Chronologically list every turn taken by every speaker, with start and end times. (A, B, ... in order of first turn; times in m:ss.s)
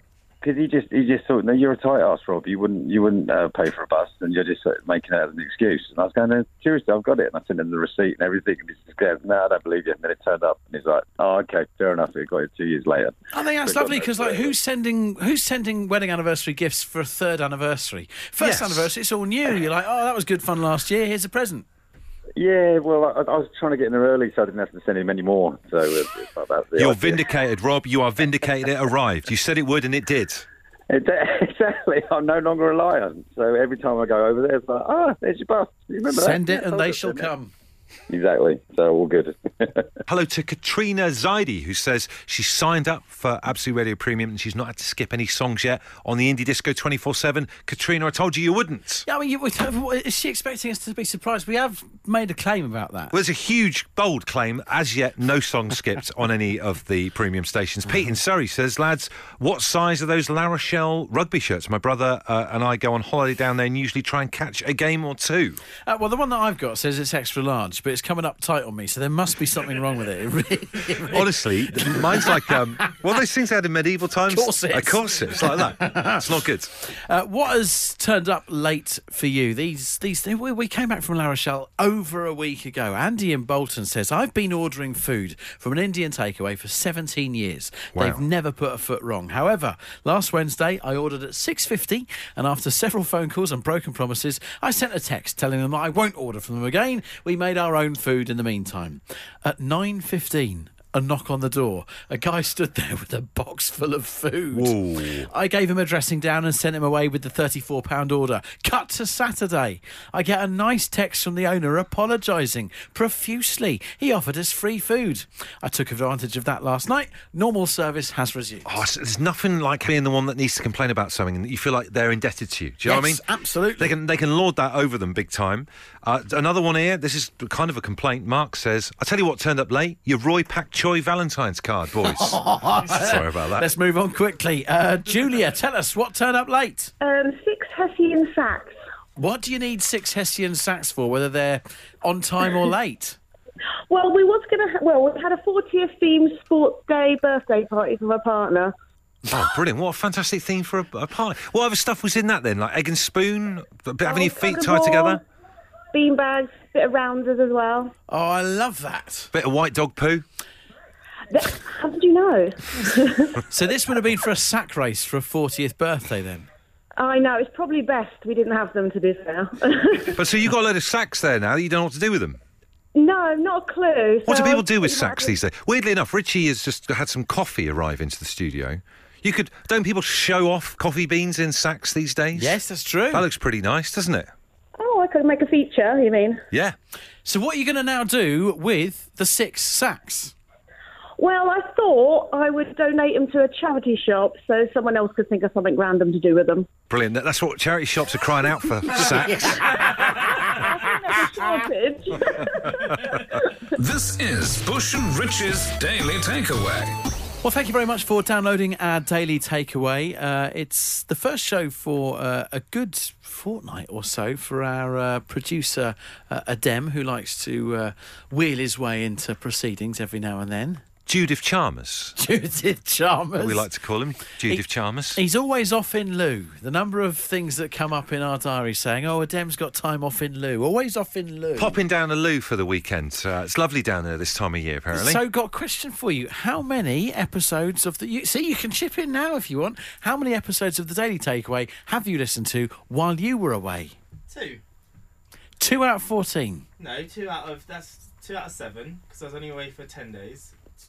0:00.4-0:14.5 A
0:13.3-0:21.6 B
0:18.4-0:18.9 C
0:22.4-0:27.3 A
0:26.8-0:30.5 C
0:30.9-0:37.3 A
0:36.1-0:37.5 B
0:38.1-0:39.9 A
0:40.1-0:49.1 C
0:49.1-0:53.1 B
0:53.1-1:05.6 C
1:05.9-1:12.9 B
1:11.0-1:16.7 C
1:14.3-1:58.7 B
1:28.0-1:28.2 C
1:44.5-1:45.3 C
1:58.7-2:03.2 C
2:02.8-2:03.9 B
2:03.8-2:13.7 C
2:12.0-2:16.9 B
2:17.0-2:18.8 D
2:19.2-2:23.2 B
2:23.9-2:28.7 D
2:29.3-2:35.2 C
2:34.0-2:35.2 D
2:35.9-2:37.9 D
2:38.1-2:39.3 B
2:39.3-2:40.2 C
2:41.3-2:43.4 D
2:43.5-2:46.5 B
2:47.0-2:50.2 D
2:50.2-2:52.4 C
2:52.9-2:55.4 D
2:54.3-3:02.6 C
3:02.4-3:03.3 B
3:03.1-3:04.3 C
3:04.8-3:06.4 D
3:07.2-3:10.4 B
3:11.2-3:16.7 D
3:16.9-3:19.7 C
3:19.1-3:20.3 B
3:20.4-3:23.5 D
3:23.8-3:27.0 E
3:27.4-3:40.8 B
3:41.1-3:42.2 C
3:42.2-3:43.7 B
3:43.4-3:45.2 C
3:45.1-3:51.8 B
3:51.6-3:55.2 C
3:54.9-4:04.0 B
4:04.3-4:04.6 F
4:05.6-4:06.6 B
4:06.8-4:10.6 F